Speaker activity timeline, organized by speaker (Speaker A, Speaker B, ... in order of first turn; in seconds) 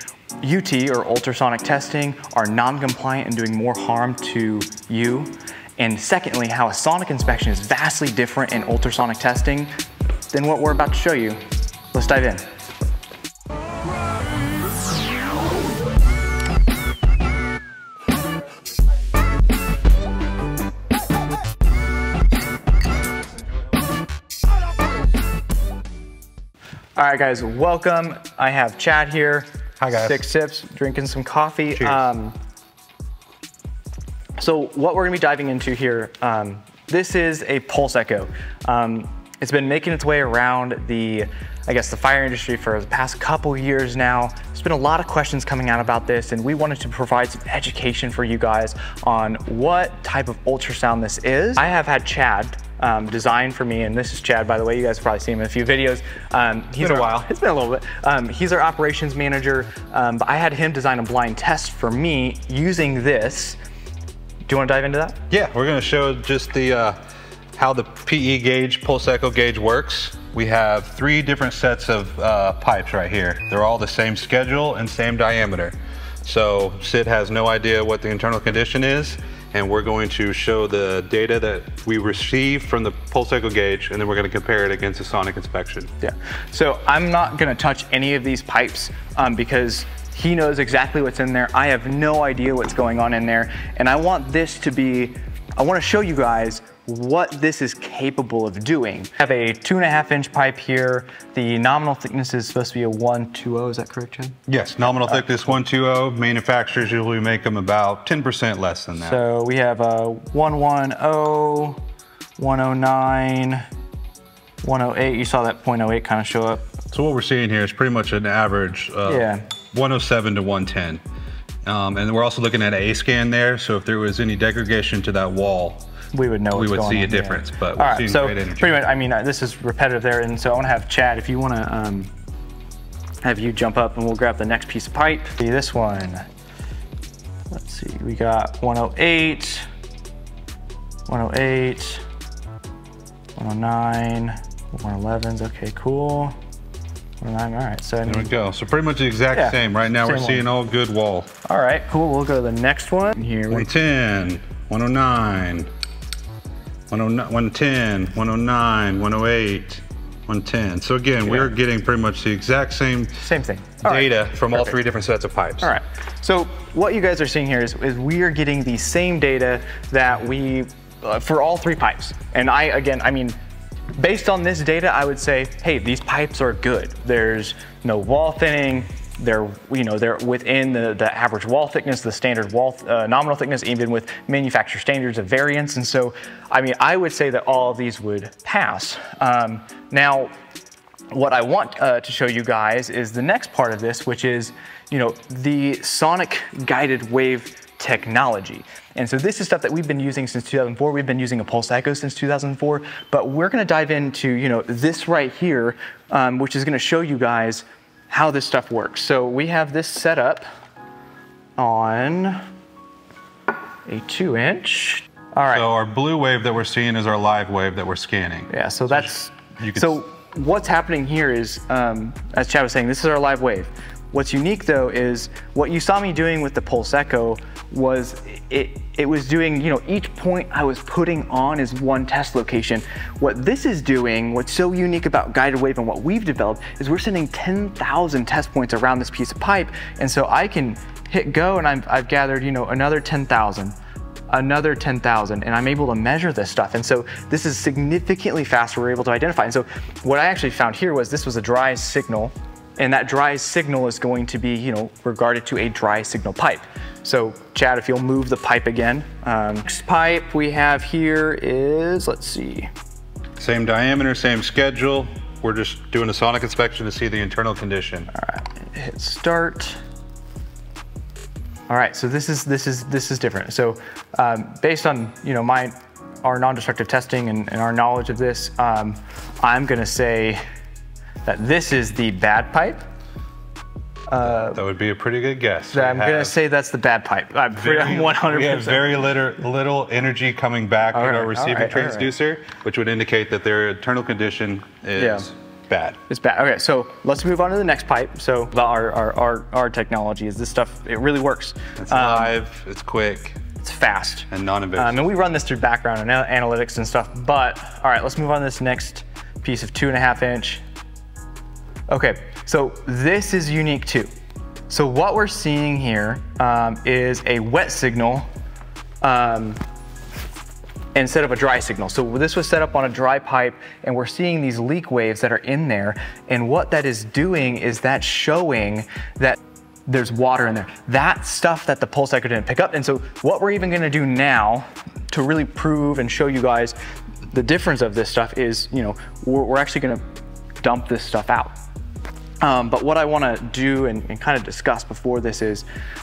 Speaker A: 0.4-9.7, 10.3-11.4, 11.9-12.4, 26.9-32.3, 34.4-63.6, 64.5-65.2, 86.0-104.4, 109.0-111.8, 112.4-113.6, 114.6-116.7, 119.1-119.5, 126.1-132.1, 133.2-136.3, 137.5-139.7, 141.1-142.0, 143.4-146.3, 147.2-148.3, 149.3-150.4, 151.4-153.7, 161.2-161.5, 163.2-164.7, 165.6-173.3, 173.9-190.3, 191.1-210.4, 211.6-212.4, 213.8-215.7, 218.5-243.7, 244.3-262.7, 268.1-269.8, 271.7-280.4, 281.2-282.8, 284.1-284.6, 285.7-289.0, 290.9-292.1, 295.0-295.2, 296.1-302.3, 303.6-310.6, 311.9-314.1, 314.7-318.3, 319.0-319.6, 320.9-336.8, 337.3-340.0, 340.6-341.5, 342.4-345.6
Speaker B: 29.8-30.2, 31.8-32.0, 56.8-57.3, 65.3-67.0, 67.5-85.9, 104.5-109.2, 116.9-121.0, 121.6-125.8, 126.5-128.8, 148.0-151.3, 153.5-155.7, 156.9-163.2, 163.8-165.7, 215.5-219.9, 263.4-268.1, 284.2-286.3, 287.6-296.0, 301.8-303.4, 304.3-305.1